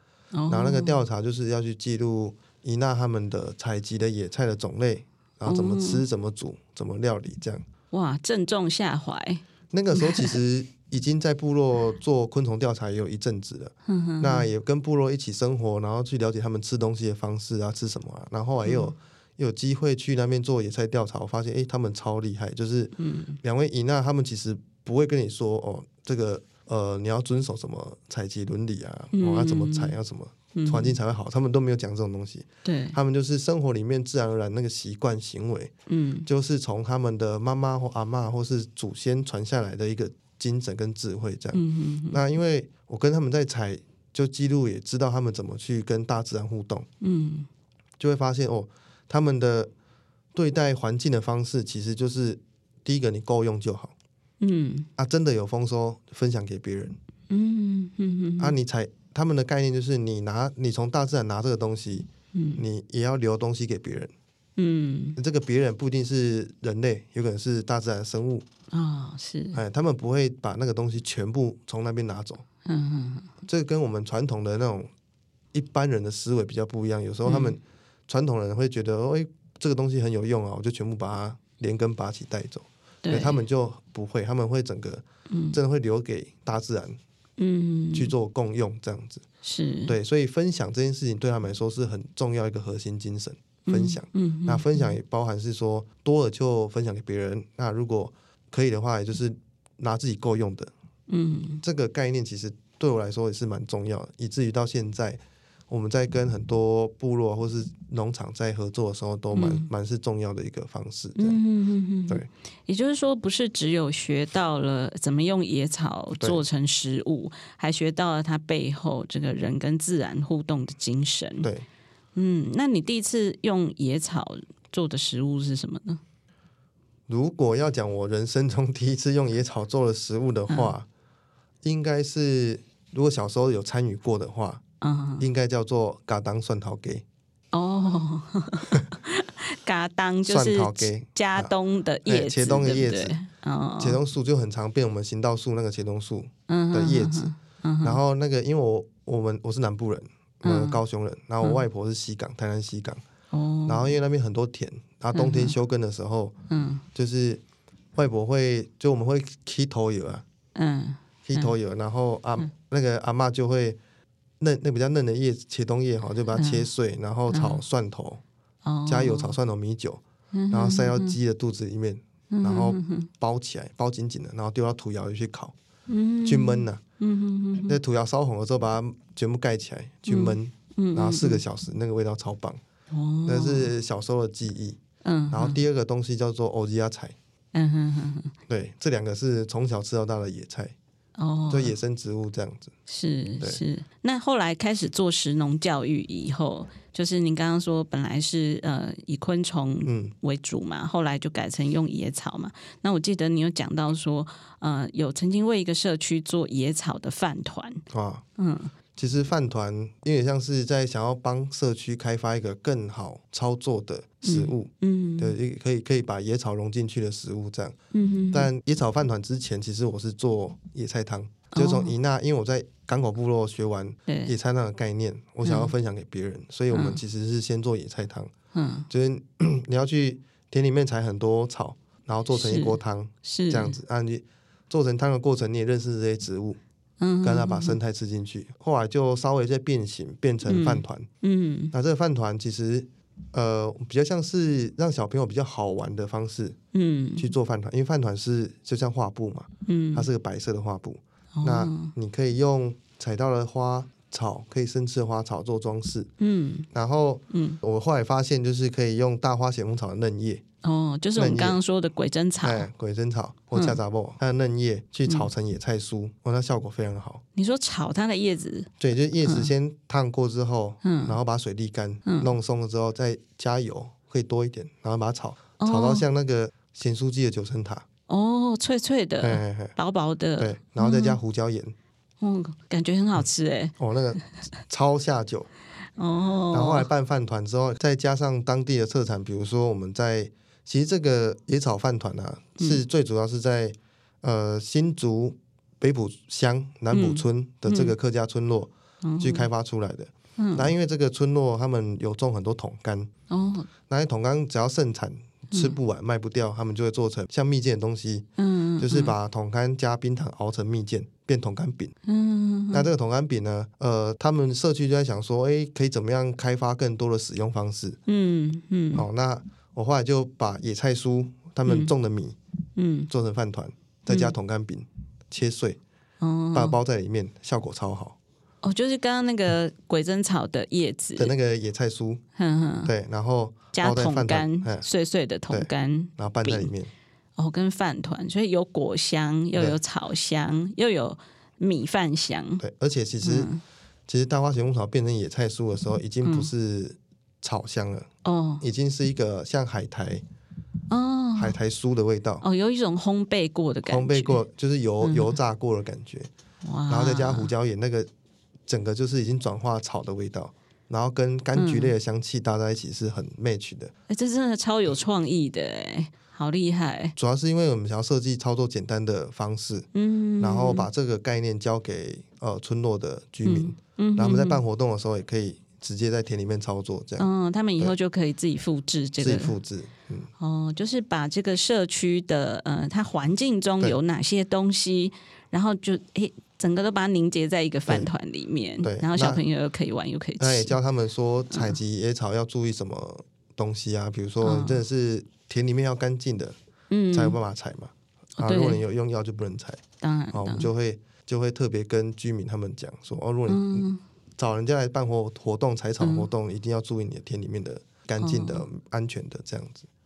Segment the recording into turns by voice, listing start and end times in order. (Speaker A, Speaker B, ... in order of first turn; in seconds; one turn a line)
Speaker A: 0.3-1.0
Speaker B: 0.5-7.6
Speaker A: 5.5-6.0
Speaker A: 7.9-9.4
Speaker B: 9.7-35.7
Speaker A: 9.9-10.4
Speaker A: 13.8-14.5
Speaker A: 18.6-18.9
Speaker A: 23.0-23.4
Speaker A: 29.1-30.0
Speaker A: 30.5-30.9
Speaker A: 32.6-33.0
Speaker A: 35.9-36.3
Speaker B: 36.2-46.9
Speaker A: 41.5-42.2
Speaker A: 47.0-47.5
Speaker B: 48.0-49.7
Speaker B: 50.3-53.9
Speaker A: 54.4-54.9
Speaker B: 55.0-57.0
Speaker A: 57.3-58.5
Speaker B: 58.4-64.1
Speaker A: 62.3-62.6
Speaker A: 64.6-65.2
Speaker B: 65.2-68.5
Speaker A: 68.7-69.6
Speaker B: 69.5-72.4
Speaker A: 72.6-73.3
Speaker B: 73.5-74.9
Speaker B: 75.5-87.0
Speaker A: 77.2-77.6
Speaker A: 83.0-83.4
Speaker A: 85.3-85.6
Speaker A: 87.4-88.1
Speaker B: 87.9-89.2
Speaker A: 89.4-90.0
Speaker B: 89.9-100.7
Speaker A: 93.7-94.9
Speaker A: 101.1-101.6
Speaker B: 101.6-111.4
Speaker A: 109.3-109.7
Speaker A: 111.2-121.5
Speaker B: 116.2-116.4
Speaker A: 122.1-126.0
Speaker B: 127.1-130.9
Speaker B: 131.6-134.6
Speaker A: 134.8-135.3
Speaker B: 135.2-137.0
Speaker A: 137.5-144.0
Speaker B: 140.3-141.5
Speaker B: 142.1-143.2
Speaker B: 143.8-147.3
Speaker A: 146.5-148.0
Speaker B: 147.8-153.0
Speaker A: 150.4-150.8
Speaker A: 153.3-153.9
Speaker B: 153.7-156.3
Speaker A: 155.1-155.5
Speaker A: 156.5-156.8
Speaker B: 156.9-157.4
Speaker B: 157.9-160.2
Speaker A: 160.5-161.5
Speaker B: 161.2-163.8
Speaker B: 164.4-168.2
Speaker A: 166.3-166.7
Speaker A: 167.3-167.6
Speaker A: 168.6-169.4
Speaker B: 168.8-175.5
Speaker A: 170.3-171.2
Speaker A: 172.3-173.1
Speaker A: 175.9-177.8
Speaker B: 176.2-176.8
Speaker B: 177.6-182.6
Speaker A: 180.1-181.4
Speaker A: 182.9-183.7
Speaker B: 183.2-187.2
Speaker A: 185.0-185.6
Speaker A: 187.5-188.3
Speaker B: 188.5-190.7
Speaker A: 191.2-191.7
Speaker B: 191.5-192.7
Speaker A: 192.9-207.8
Speaker B: 199.8-200.1
Speaker B: 207.9-208.2
Speaker A: 208.4-208.7
Speaker B: 208.9-217.8
Speaker A: 214.2-215.3
Speaker A: 217.9-218.5
Speaker B: 218.3-228.3
Speaker A: 221.5-221.9
Speaker A: 224.1-224.3
Speaker A: 225.4-225.7
Speaker A: 226.7-227.0
Speaker A: 228.5-228.9
Speaker B: 228.9-236.6
Speaker A: 232.3-233.8
Speaker A: 237.0-237.8
Speaker B: 237.2-241.1
Speaker A: 240.4-241.7
Speaker B: 241.7-246.6
Speaker A: 246.7-247.3
Speaker B: 247.2-256.1
Speaker A: 249.7-250.1
Speaker A: 251.3-251.9
Speaker A: 256.2-256.7
Speaker B: 256.7-260.4
Speaker A: 257.3-257.6
Speaker A: 260.6-262.7
Speaker B: 261.1-261.6
Speaker B: 262.4-267.2
Speaker A: 263.5-263.8
Speaker A: 267.4-268.7
Speaker B: 268.8-277.9
Speaker A: 269.2-269.5
Speaker A: 270.8-271.2
Speaker A: 272.0-272.3
Speaker A: 275.6-276.1
Speaker A: 278.1-281.2
Speaker B: 279.2-279.8
Speaker B: 280.4-281.7
Speaker A: 282.2-283.7
Speaker B: 283.8-285.5
Speaker A: 286.0-286.9
Speaker B: 286.5-303.1
Speaker A: 296.9-297.9
Speaker A: 299.0-299.5
Speaker A: 300.4-300.7
Speaker A: 303.3-303.7
Speaker B: 303.9-308.3
Speaker A: 305.5-305.8
Speaker A: 308.4-309.1
Speaker B: 308.8-311.9
Speaker A: 312.1-312.9
Speaker B: 312.7-318.0
Speaker A: 318.1-319.1
Speaker B: 318.9-322.4
Speaker A: 321.6-321.9
Speaker A: 322.8-323.1
Speaker B: 323.1-325.8
Speaker A: 324.1-324.3
Speaker A: 326.2-326.8
Speaker B: 326.5-328.1
Speaker A: 328.6-331.3
Speaker B: 331.1-332.2
Speaker A: 332.4-332.9
Speaker B: 332.8-334.9
Speaker A: 333.7-336.7
Speaker B: 335.5-336.9
Speaker A: 337.4-342.6
Speaker B: 342.6-343.5
Speaker A: 343.2-343.6
Speaker B: 344.1-348.1
Speaker A: 346.2-346.5
Speaker A: 348.2-348.6
Speaker B: 348.6-350.2
Speaker A: 350.9-351.6
Speaker B: 351.3-352.4
Speaker A: 352.4-354.4
Speaker B: 353.8-356.3
Speaker A: 355.0-355.4
Speaker A: 356.6-357.5
Speaker B: 356.9-358.1
Speaker B: 358.7-363.9
Speaker A: 361.5-361.9
Speaker A: 364.1-367.1
Speaker B: 367.1-369.9
Speaker A: 369.9-370.9
Speaker B: 370.4-377.9
Speaker A: 373.4-374.6
Speaker A: 377.2-379.5
Speaker B: 379.2-380.3
Speaker A: 380.4-390.8
Speaker B: 388.8-389.4
Speaker B: 390.4-396.6
Speaker A: 391.5-391.8
Speaker A: 394.4-394.8
Speaker A: 396.9-397.4
Speaker B: 397.1-399.8
Speaker A: 398.4-398.8
Speaker A: 400.0-400.7
Speaker B: 400.3-409.9
Speaker A: 403.5-404.0
Speaker A: 406.0-406.3
Speaker A: 408.2-408.6